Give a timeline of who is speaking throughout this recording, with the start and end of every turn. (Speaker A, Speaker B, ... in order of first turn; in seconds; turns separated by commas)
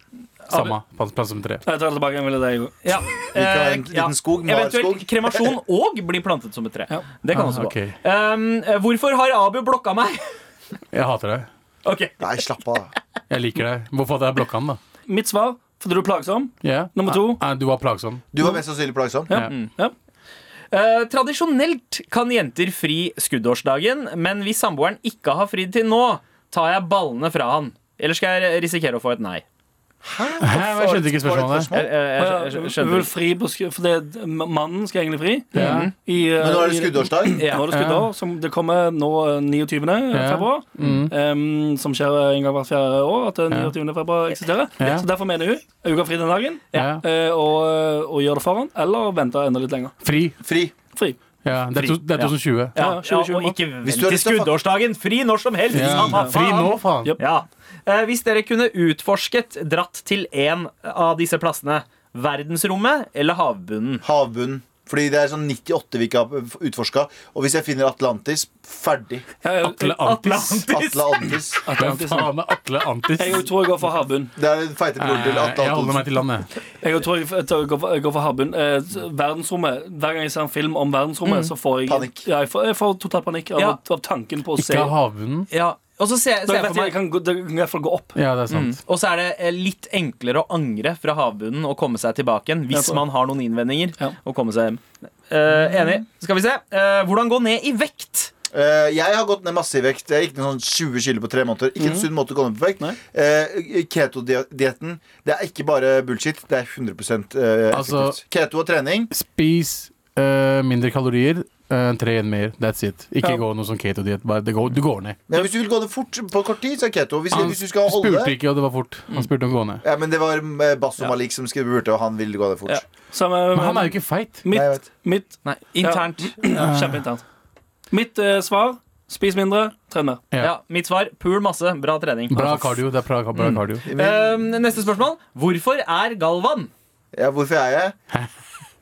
Speaker A: 0.5-0.7, Speaker B: 0.5-1.6, Speaker C: 1.6-2.7, Speaker A: 2.8-10.2, Speaker D: 3.3-5.5, Speaker B: 7.3-8.0, Speaker B: 10.9-11.5, Speaker A: 11.8-12.2, Speaker D: 12.2-12.9, Speaker B: 13.3-14.8, Speaker C: 15.1-17.4, Speaker B: 16.6-18.2, Speaker D: 18.3-19.3, Speaker C: 19.3-19.9, Speaker A: 20.7-29.4, Speaker D: 30.0-31.9, Speaker B: 30.4-31.7, Speaker A: 31.7-33.1, Speaker C: 32.2-49.9, Speaker B: 35.5-35.9, Speaker A: 35.5-35.9, Speaker D: 36.4-37.4, Speaker A: 37.4-37.7, Speaker B: 37.7-38.1, Speaker B: 40.1-41.1, Speaker B: 44.8-45.0, Speaker B: 46.7-47.0, Speaker B: 50.0-50.4, Speaker D: 50.4-50.7, Speaker B: 51.4-52.7, Speaker A: 51.7-64.0, Speaker C: 52.7-53.6, Speaker D: 53.8-54.6, Speaker B: 55.7-57.1, Speaker D: 55.8-56.1, Speaker C: 56.0-56.4, Speaker D: 64.0-69.2, Speaker C: 69.4-69.8, Speaker B: 69.6-70.7, Speaker A: 69.8-71.3, Speaker D: 70.7-71.6, Speaker C: 71.7-72.3, Speaker B: 71.7-73.5, Speaker C: 73.2-74.3, Speaker D: 74.3-76.1, Speaker B: 75.0-76.5, Speaker C: 76.8-84.9, Speaker A: 81.2-81.5, Speaker D: 81.8-82.2, Speaker B: 84.6-85.5, Speaker A: 85.5-87.0, Speaker C: 86.5-88.2, Speaker B: 88.2-88.8, Speaker A: 88.5-98.3, Speaker C: 92.7-93.0, Speaker D: 98.5-109.1, Speaker C: 101.8-102.1, Speaker B: 107.7-108.2, Speaker B: 109.1-115.2, Speaker D: 115.3-118.3, Speaker B: 117.3-119.8, Speaker D: 119.8-122.8, Speaker C: 123.1-127.2, Speaker B: 123.5-124.4, Speaker D: 124.5-124.9, Speaker A: 125.4-126.6, Speaker B: 126.5-127.0, Speaker C: 127.9-130.2, Speaker A: 130.4-132.8, Speaker B: 132.3-133.8, Speaker A: 133.3-136.7, Speaker D: 133.9-134.2, Speaker D: 137.1-137.9